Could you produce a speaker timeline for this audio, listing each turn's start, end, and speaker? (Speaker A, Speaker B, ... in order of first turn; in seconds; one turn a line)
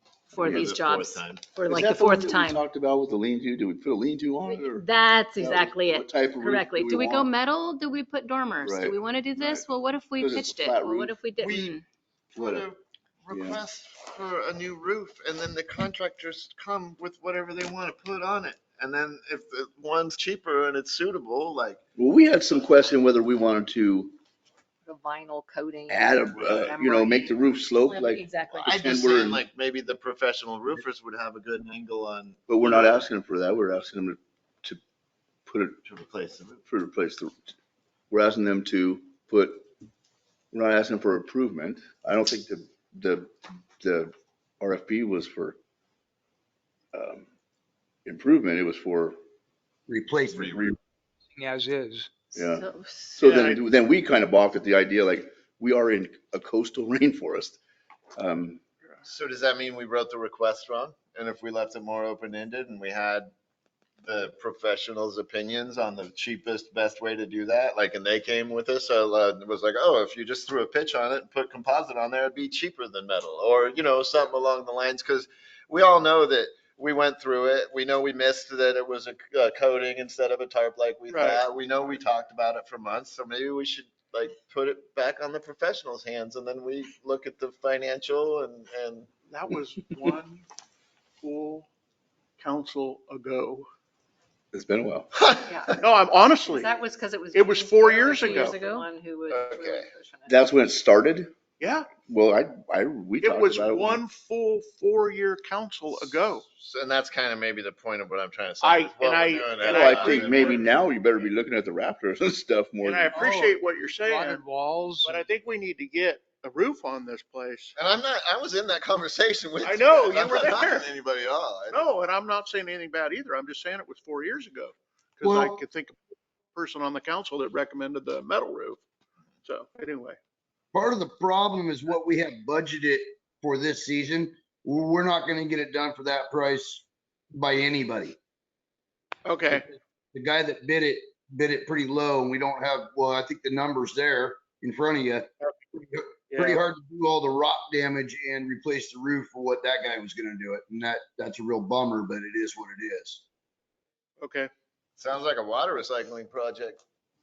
Speaker A: 0.3-2.6
Speaker B: 0.4-0.7
Speaker C: 0.4-1.4
Speaker B: 1.7-7.3
Speaker A: 4.5-11.8
Speaker B: 8.6-9.6
Speaker B: 10.2-11.2
Speaker C: 11.4-11.7
Speaker B: 12.4-12.7
Speaker C: 12.4-21.8
Speaker B: 13.3-13.6
Speaker B: 22.0-24.2
Speaker D: 24.9-27.4
Speaker B: 25.9-29.4
Speaker A: 27.9-28.8
Speaker C: 28.7-32.9
Speaker B: 32.5-34.8
Speaker B: 35.5-35.8
Speaker C: 35.9-36.6
Speaker B: 36.7-37.5
Speaker B: 38.1-39.6
Speaker B: 40.5-45.6
Speaker B: 46.9-47.3
Speaker B: 48.0-49.2
Speaker E: 49.9-50.7
Speaker B: 50.4-50.8
Speaker F: 51.4-52.1
Speaker B: 52.4-57.6
Speaker A: 52.4-53.3
Speaker G: 53.3-53.6
Speaker B: 58.2-58.6
Speaker C: 59.0-63.3
Speaker C: 64.0-89.1
Speaker G: 81.1-81.4
Speaker G: 89.2-90.5
Speaker G: 91.2-91.7
Speaker G: 92.4-93.7
Speaker B: 94.5-95.1
Speaker C: 95.2-95.8
Speaker D: 95.5-95.7
Speaker G: 95.8-96.8
Speaker D: 96.4-100.4
Speaker G: 97.3-98.6
Speaker A: 98.3-98.9
Speaker C: 99.3-99.8
Speaker B: 100.3-101.3
Speaker G: 101.6-101.9
Speaker B: 102.1-104.0
Speaker G: 103.2-106.5
Speaker C: 106.5-110.7
Speaker G: 108.6-110.6
Speaker B: 109.7-113.3
Speaker G: 112.8-114.5
Speaker F: 113.1-115.2
Speaker G: 115.0-117.8
Speaker C: 117.8-121.8
Speaker G: 119.6-120.9
Speaker G: 121.7-126.0
Speaker E: 125.2-125.6
Speaker G: 126.5-128.8
Speaker G: 129.4-130.2
Speaker E: 130.7-138.2
Speaker G: 139.2-139.7
Speaker E: 139.5-153.2
Speaker G: 146.3-146.6
Speaker G: 154.2-154.5
Speaker C: 155.0-156.8